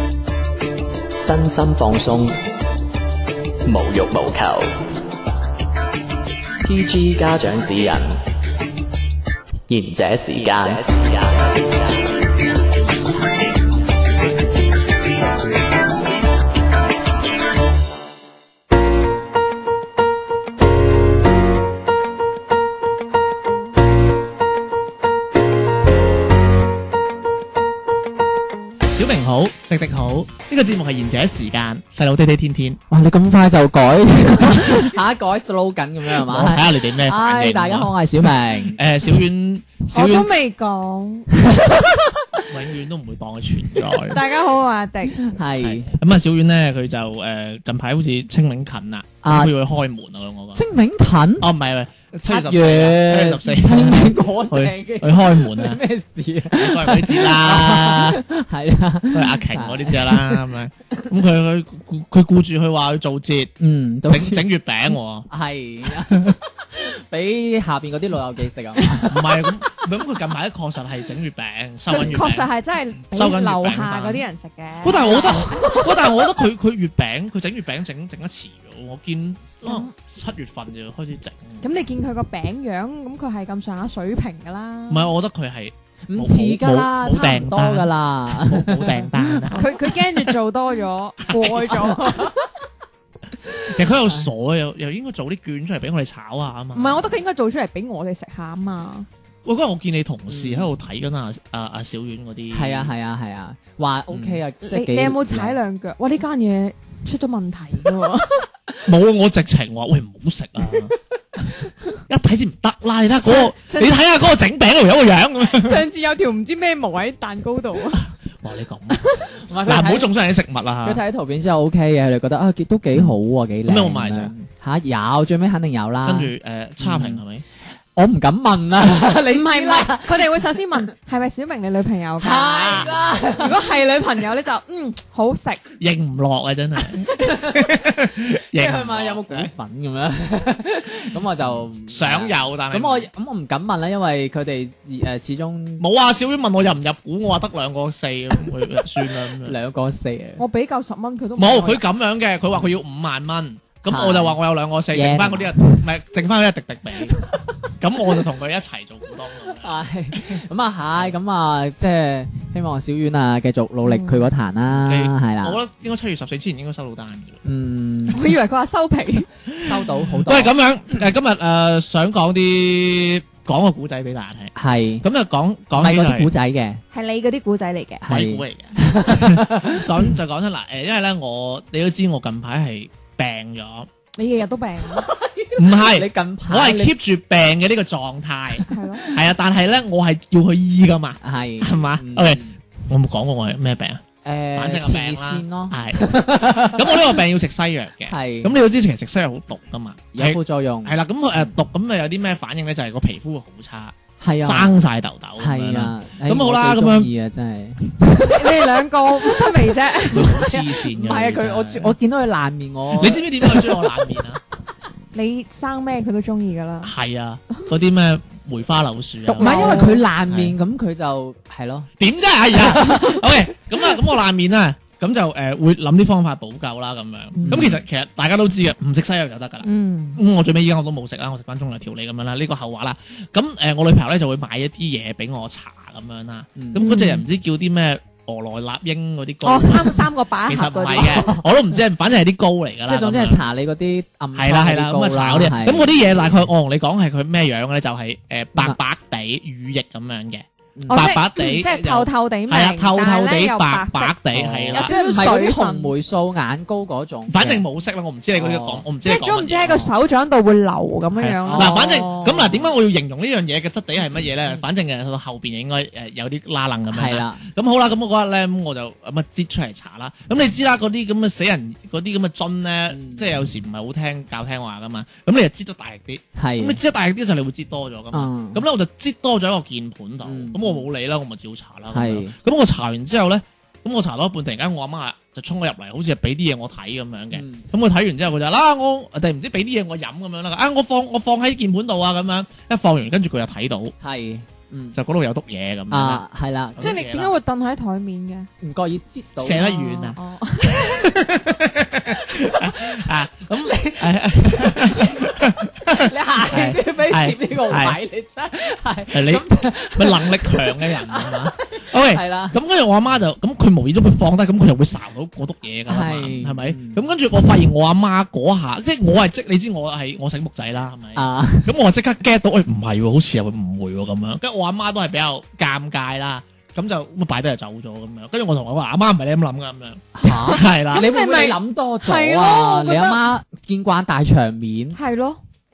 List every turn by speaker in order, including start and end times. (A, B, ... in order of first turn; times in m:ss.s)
0:01.2-0:02.3 A
0:03.6-0:04.7 A
0:06.6-0:08.2 A
0:09.7-0:12.1 A
0:28.9-0:32.8 B
0:32.9-0:38.8 C
0:36.1-0:40.3 B
0:39.9-0:41.3 D
0:41.5-0:42.0 C
0:42.4-0:44.2 B
0:44.1-0:45.2 D
0:45.2-0:45.9 C
0:45.6-0:50.6 B
0:49.2-0:49.5 C
0:50.5-0:51.5 C
0:51.4-0:55.8 B
0:52.2-1:00.4 C
0:56.5-0:58.2 B
0:59.1-1:03.5 B
1:03.6-1:04.4 C
1:04.1-1:05.3 B
1:05.3-1:09.6 C
1:06.0-1:06.4 B
1:09.0-1:12.5 B
1:11.9-1:16.2 D
1:13.1-1:14.2 B
1:14.8-1:21.6 B
1:19.6-1:19.9 D
1:21.6-1:25.1 D
1:24.9-1:29.7 B
1:26.1-1:29.7 C
1:29.5-1:32.3 D
1:31.3-1:31.7 B
1:31.8-1:32.3 C
1:33.6-1:37.1 B
1:36.7-1:39.1 D
1:39.4-1:42.9 B
1:40.3-1:40.7 C
1:42.5-1:45.6 C
1:44.1-1:44.4 B
1:44.6-1:48.5 D
1:48.8-1:51.5 B
1:52.1-1:55.8 B
1:53.2-1:53.9 D
1:55.5-1:58.1 D
1:58.4-2:01.0 B
1:58.9-1:59.2 D
1:59.4-2:00.1 C
2:00.8-2:07.2 C
2:03.6-2:04.3 B
2:06.0-2:07.4 B
2:08.0-2:10.4 C
2:09.3-2:15.6 D
2:12.2-2:13.6 C
2:12.5-2:13.1 B
2:15.8-2:19.5 B
2:17.0-2:25.8 C
2:21.9-2:23.1 B
2:25.8-2:29.6 B
2:29.4-2:30.4 C
2:30.4-2:31.8 D
2:31.4-2:37.2 B
2:33.9-2:34.4 C
2:34.9-2:35.9 C
2:37.1-2:37.5 C
2:37.8-2:39.7 B
2:39.6-2:45.6 C
2:43.8-2:44.2 D
2:44.7-2:47.4 B
2:47.4-2:48.4 C
2:48.1-2:49.3 D
2:49.5-2:56.3 B
2:49.6-2:50.5 C
2:54.6-2:55.0 C
2:55.7-2:56.8 C
2:56.9-2:58.0 D
2:58.0-3:00.1 C
2:58.1-3:03.9 B
3:04.2-3:05.1 D
3:04.9-3:06.9 C
3:05.6-3:14.0 B
3:08.7-3:09.1 D
3:11.2-3:12.6 C
3:14.2-3:17.2 C
3:14.5-3:27.1 B
3:18.1-3:18.6 C
3:20.1-3:21.0 C
3:24.2-3:24.8 C
3:25.4-3:28.6 C
3:28.2-3:30.3 D
3:30.1-3:32.0 B
3:30.1-3:34.0 C
3:33.0-3:34.4 B
3:35.1-3:36.9 D
3:36.8-3:40.6 B
3:39.3-3:40.0 D
3:39.3-3:41.9 C
3:42.0-4:03.4 B
3:42.5-3:43.2 C
3:47.4-3:47.8 C
3:49.6-3:50.2 D
3:56.6-3:57.0 C
3:56.8-3:57.2 D
3:59.4-4:01.4 D
4:02.8-4:05.9 C
4:04.3-4:14.9 B
4:10.8-4:11.1 C
4:10.9-4:14.2 D
4:14.3-4:17.6 C
4:14.7-4:15.9 D
4:17.3-4:19.8 B
4:18.3-4:18.8 C
4:19.0-4:22.5 D
4:19.6-4:19.9 C
4:21.2-4:53.9 B
4:21.4-4:22.5 C
4:26.9-4:27.4 C
4:32.9-4:33.2 C
4:36.4-4:36.8 C
4:38.1-4:38.6 C
4:40.2-4:40.9 C
4:41.9-4:42.3 C
4:47.3-4:47.6 C
4:54.0-4:55.0 C
4:54.9-4:56.2 B
4:55.9-4:57.0 C
4:56.7-4:57.3 B
4:56.8-4:58.5 D
4:58.6-4:59.8 C
4:59.4-5:08.0 B
4:59.6-5:01.0 D
5:02.3-5:03.0 C
5:03.6-5:12.6 C
5:09.1-5:31.1 B
5:15.9-5:17.0 C
5:21.1-5:21.8 C
5:30.1-5:35.0 C
5:30.2-5:33.3 D
5:35.0-5:35.4 D